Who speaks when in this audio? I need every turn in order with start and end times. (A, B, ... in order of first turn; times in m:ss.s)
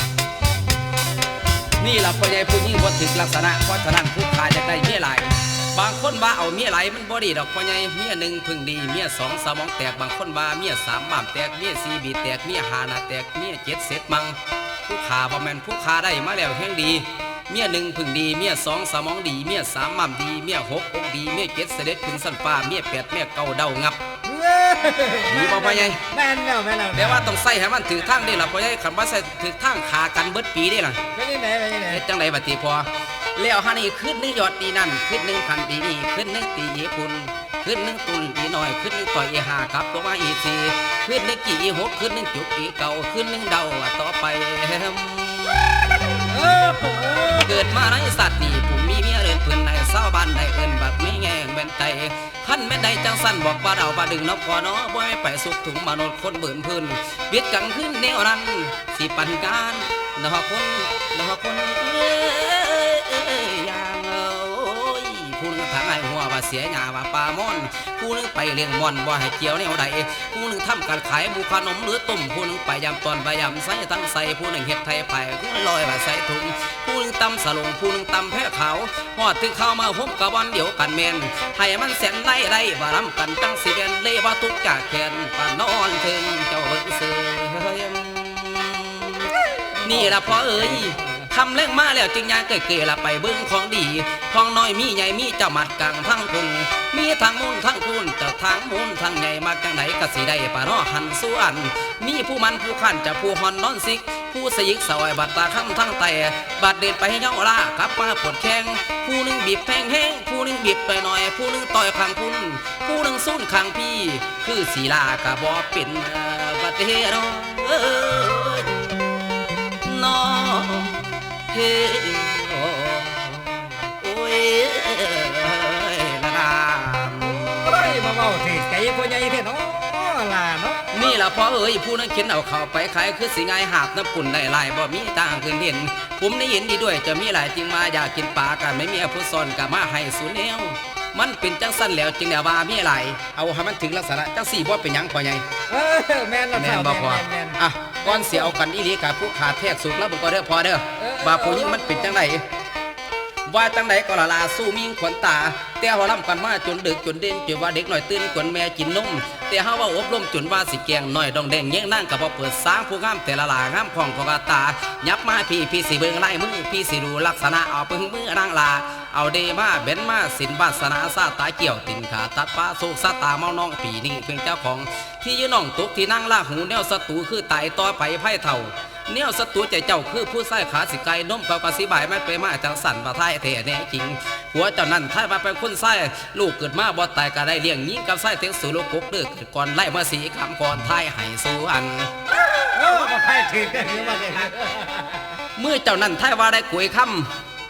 0:01.8-0:14.4 A
0:14.9-0:24.0 A
0:24.2-0:27.3 B
0:25.3-0:26.0 A
0:26.9-0:31.0 A
0:31.1-0:32.0 B
0:31.9-0:46.1 A
0:46.3-0:47.7 B
0:47.4-1:58.9 A
1:29.8-1:31.2 B
1:59.8-2:07.6 A
2:07.2-2:10.9 B
2:10.9-2:25.4 A
2:25.7-2:28.5 B
2:26.5-2:32.4 A
2:31.0-2:32.2 B
2:33.4-3:12.1 A
3:12.7-3:15.4 B
3:15.6-3:17.3 A